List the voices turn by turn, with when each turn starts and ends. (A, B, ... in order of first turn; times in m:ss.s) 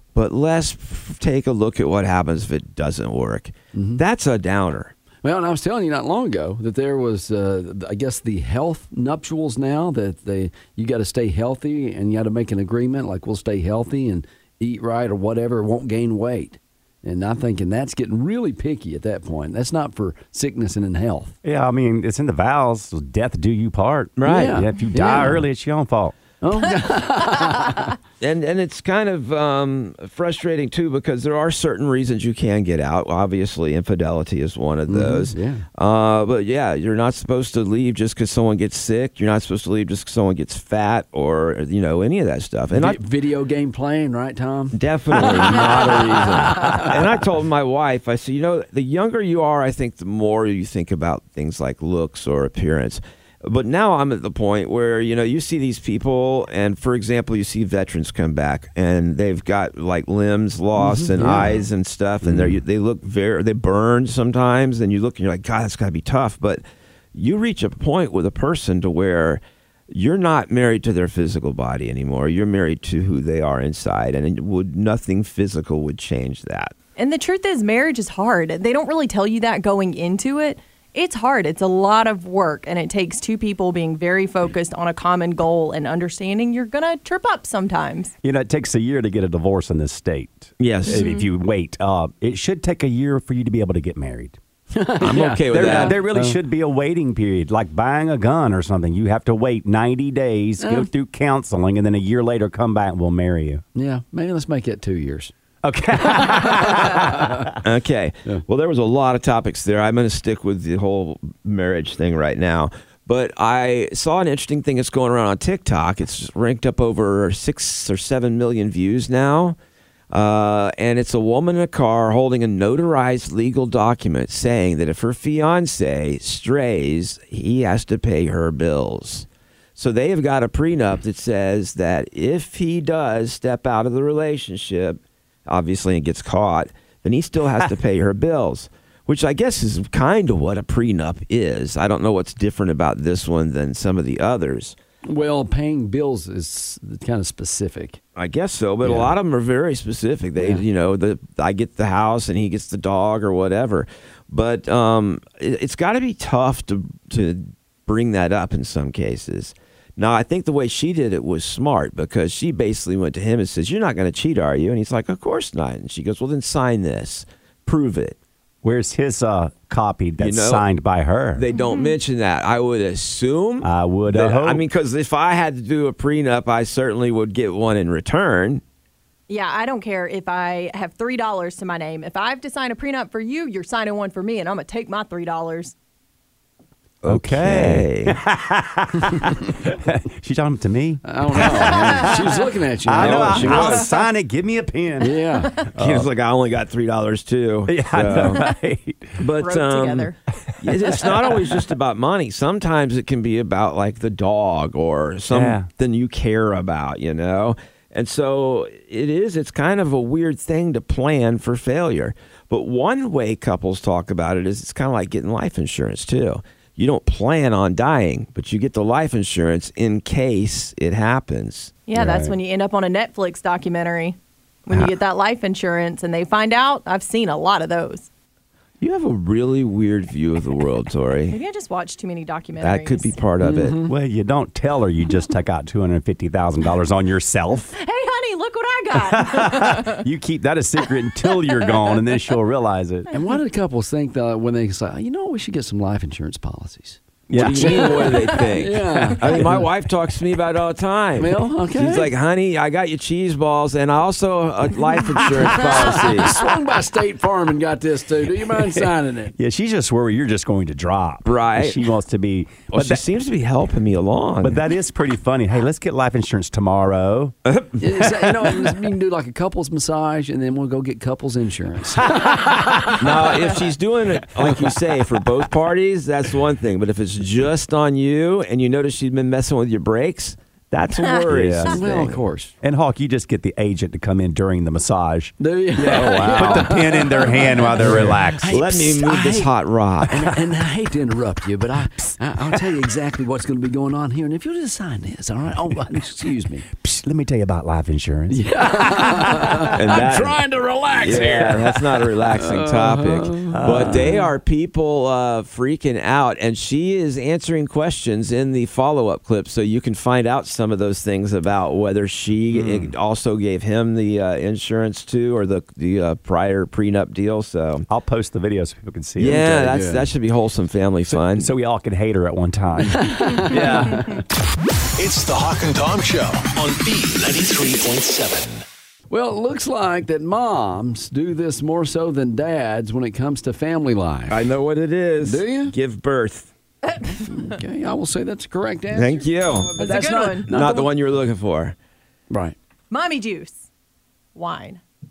0:00.2-0:04.9 A
0:03.7-0:04.0 B
0:05.2-0:21.4 B
0:21.4-0:26.2 C
0:24.2-0:24.6 A
0:24.3-0:25.5 B
0:26.4-0:28.0 B
0:28.2-0:43.0 A
0:34.9-0:35.6 B
0:42.7-0:47.0 B
0:44.7-1:06.6 A
1:00.8-1:01.6 B
1:07.2-1:16.7 A
1:17.0-1:28.1 D
1:28.2-1:34.4 C
1:30.6-1:31.0 A
1:30.9-1:31.3 D
1:34.7-1:36.4 B
1:35.0-1:36.0 A
1:35.2-1:43.6 C
1:40.6-1:40.9 B
1:43.8-1:45.3 B
1:45.6-1:47.5 C
1:46.1-1:47.5 B
1:47.6-1:59.6 A
2:00.1-2:24.8 A
2:25.1-2:28.0 B
2:28.2-2:48.2 A
2:28.8-2:29.1 B
2:48.6-2:51.4 C
2:50.2-2:50.6 A
2:51.3-2:58.6 A
2:51.5-2:51.9 D
2:53.6-2:54.6 C
2:59.3-3:05.7 D
3:07.0-3:08.2 A
3:07.1-3:16.1 C
3:11.0-3:13.8 B
3:13.0-3:13.9 A
3:15.0-3:15.6 B
3:15.8-3:18.5 A
3:17.7-3:19.2 C
3:19.2-3:41.8 A
3:19.4-3:20.2 D
3:20.6-3:21.0 C
3:25.3-3:25.7 C
3:41.9-3:48.1 D
3:42.0-3:42.4 C
3:48.8-3:51.4 A
3:51.3-3:53.1 D
3:52.6-3:53.8 A
3:53.4-3:53.9 B
3:53.9-3:57.7 C
3:57.8-4:00.0 D
3:58.9-4:03.1 C
4:01.1-4:01.9 D
4:03.1-4:09.6 B
4:07.3-4:16.4 A
4:07.3-4:08.4 C
4:09.1-4:09.6 C
4:11.2-4:12.1 B
4:15.4-4:19.3 B
4:18.5-4:23.0 C
4:21.2-4:21.9 A
4:22.7-4:24.6 A
4:24.4-4:27.3 C
4:27.4-4:28.7 A
4:27.8-4:33.4 B
4:33.0-4:42.2 A
4:41.3-4:41.8 C
4:41.7-4:42.5 B
4:42.6-4:48.6 C
4:45.4-4:49.5 B
4:45.8-4:46.8 A
4:47.9-4:50.3 A
4:50.1-4:56.7 B
4:56.7-4:59.7 C
4:58.3-5:04.3 B
4:59.7-5:00.4 A
5:00.9-5:17.9 A
5:01.1-5:01.5 C
5:03.5-5:04.2 C
5:12.5-5:12.9 B
5:17.9-5:19.7 C
5:19.2-5:21.5 A
5:19.6-5:20.1 B
5:21.1-5:24.1 C
5:22.8-5:24.2 B
5:25.0-5:28.6 E
5:29.1-5:34.4 B
5:34.3-5:36.5 A
5:35.2-5:35.7 B
5:37.3-5:40.8 B
5:38.9-5:39.7 A
5:39.8-5:40.9 D
5:40.5-5:41.8 A
5:42.3-5:42.6 B
5:42.9-5:43.6 D
5:44.4-5:44.8 D